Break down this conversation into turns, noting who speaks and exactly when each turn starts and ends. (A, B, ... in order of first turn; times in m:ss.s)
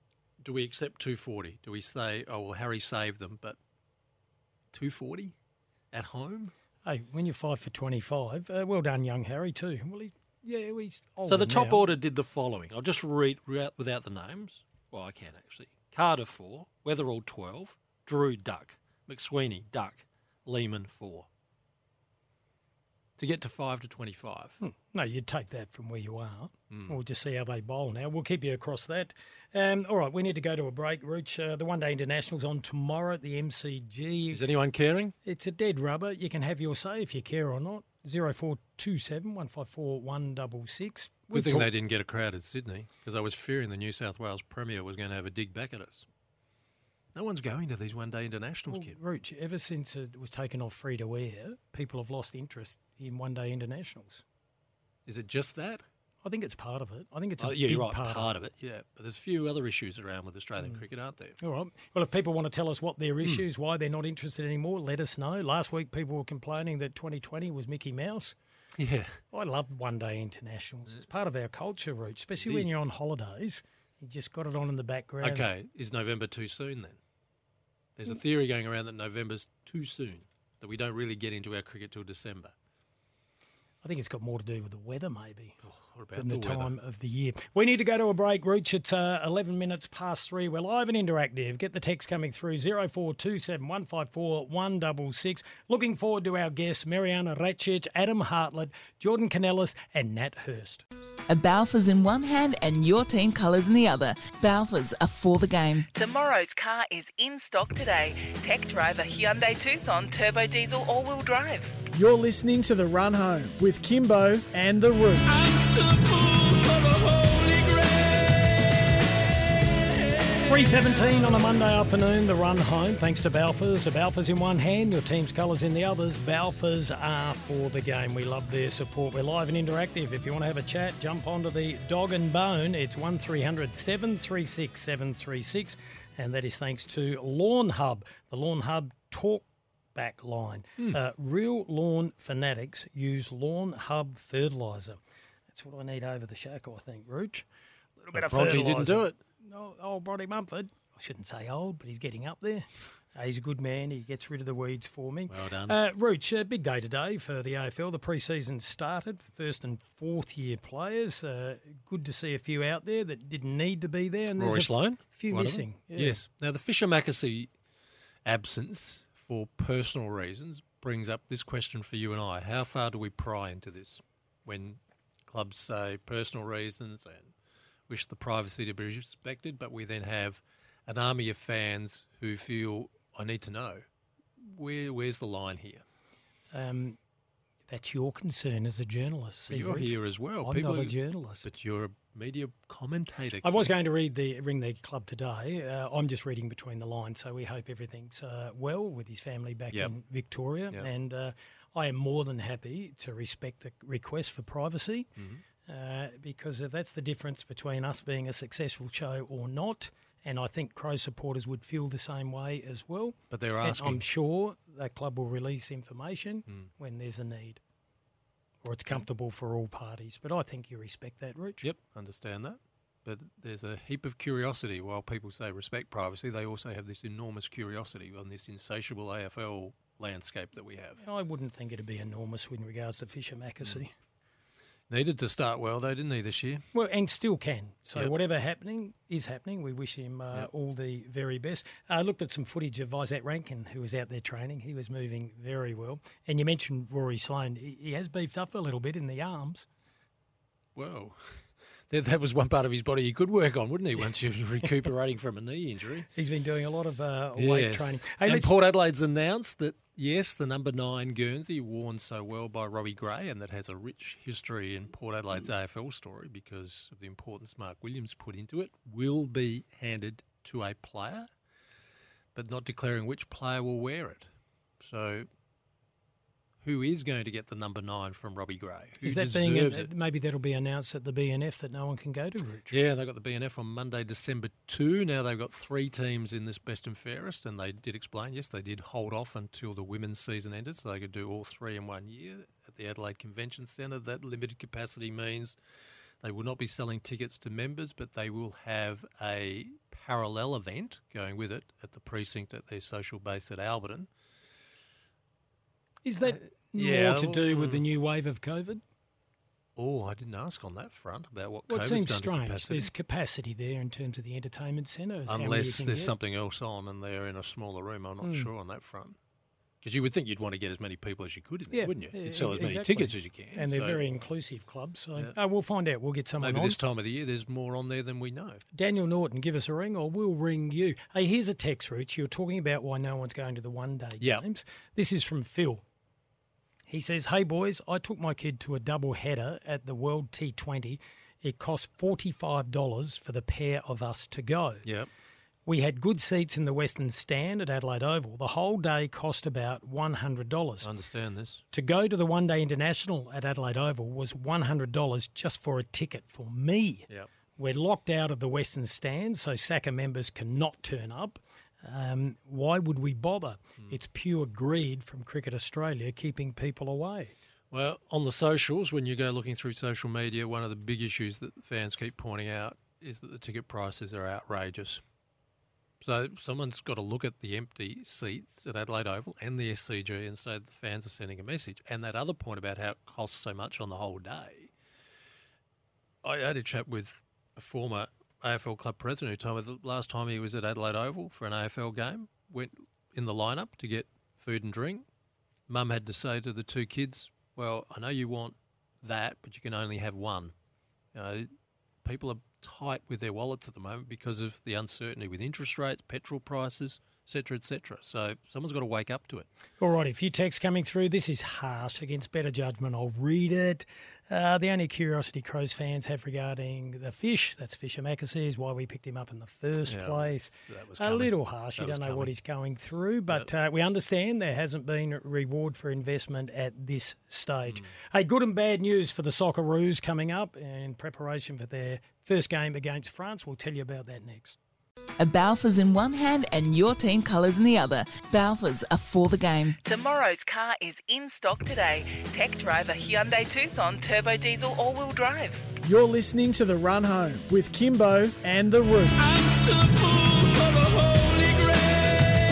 0:00.4-0:03.6 A
0:04.7-0:05.4 A
0:05.9-0:06.5 A
0:06.8-0:11.8 B
0:11.3-0:21.3 A
0:23.2-0:24.6 A
0:24.6-0:34.4 B
0:26.7-0:27.0 A
0:34.3-0:35.2 A
0:35.2-0:41.7 B
0:41.3-0:46.1 A
0:47.1-0:49.0 A
0:48.7-0:54.2 B
0:55.1-0:55.8 A
0:56.2-0:58.3 B
0:57.4-1:01.4 A
1:01.4-1:08.4 B
1:08.8-1:09.2 A
1:09.3-1:15.5 B
1:12.4-1:12.7 A
1:15.2-1:17.0 A
1:18.0-1:22.5 A
1:23.8-1:25.6 B
1:25.6-1:26.7 A
1:26.1-1:40.8 B
1:41.3-1:45.9 C
1:45.9-1:51.7 D
1:51.9-1:55.8 E
2:00.3-2:25.0 B
2:25.5-2:27.4 B
2:28.0-2:46.2 B
2:28.1-2:29.2 A
2:35.3-2:35.8 A
2:44.4-2:47.5 A
2:48.2-2:57.3 A
2:57.9-3:03.8 A
3:04.4-3:05.8 A
3:06.5-3:07.0 B
3:07.7-3:11.5 B
3:09.5-3:13.7 A
3:13.4-3:25.1 B
3:25.2-3:25.4 A
3:25.6-3:37.6 B
3:33.3-3:34.0 A
3:38.6-3:41.7 B
3:41.6-3:51.0 A
3:51.0-3:53.9 B
3:54.9-3:56.7 A
3:56.7-4:09.7 B
4:10.8-4:16.1 A
4:16.1-4:18.5 B
4:17.4-4:31.3 A
4:32.4-4:35.3 A
4:36.6-4:39.9 A
4:39.0-4:42.8 B
4:42.7-4:55.6 A
4:56.2-5:04.1 A
5:06.0-5:08.8 B
5:06.2-5:07.8 A
5:09.8-5:12.9 A
5:11.7-5:16.1 B
5:15.3-5:19.2 A
5:18.2-5:18.5 B
5:19.8-5:24.0 A
5:21.7-5:26.8 B
5:26.4-5:28.6 A
5:28.7-5:35.8 B
5:36.9-5:44.8 B
5:44.8-5:45.1 A
5:45.7-5:50.9 B
5:50.8-5:51.6 A
5:51.7-6:07.4 B
6:07.7-6:15.0 A
6:16.0-6:24.7 A
6:26.2-6:35.0 A
6:35.7-6:40.5 A
6:41.1-6:41.5 A
6:42.0-6:49.5 A
6:49.8-7:14.6 B
6:59.9-7:02.3 A
7:15.2-7:19.8 C
7:19.8-7:25.6 D
7:25.8-7:29.6 E